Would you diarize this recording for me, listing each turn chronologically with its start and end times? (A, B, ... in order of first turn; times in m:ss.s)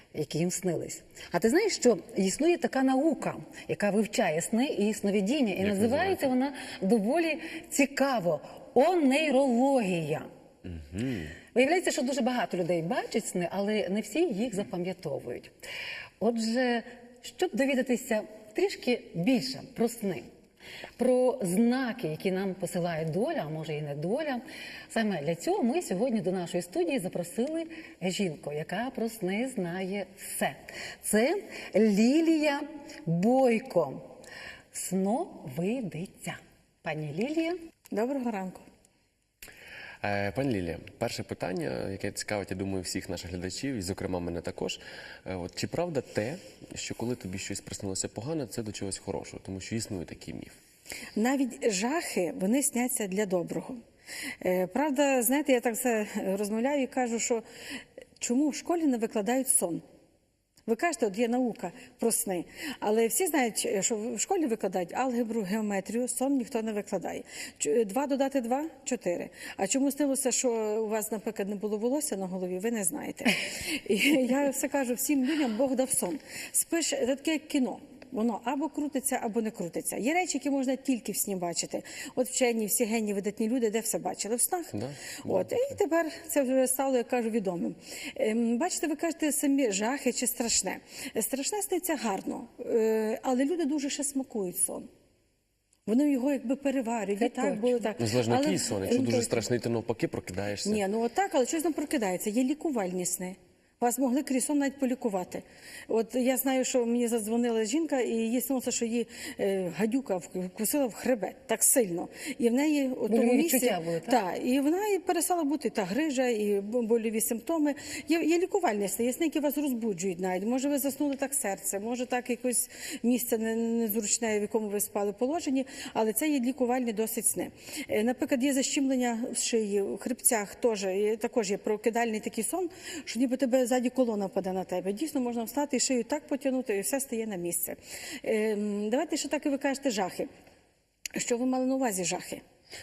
0:00.1-0:10.3 A
0:05.6-0:06.3 B
0:10.8-0:11.3 B
0:11.5-0:15.5 A
0:16.2-0:20.3 A
0:21.0-0:34.0 A
0:34.7-0:37.6 A
0:37.9-0:38.7 C
0:40.0-0:50.6 B
0:51.2-0:53.8 C
0:54.4-0:57.4 C
0:58.2-0:59.8 C
1:00.7-1:34.9 C
1:24.7-1:25.5 B
1:35.9-1:39.4 C
1:37.2-1:37.9 A
1:38.0-1:40.8 B
1:40.6-2:20.3 C
1:53.1-1:54.2 A
2:21.2-2:22.4 C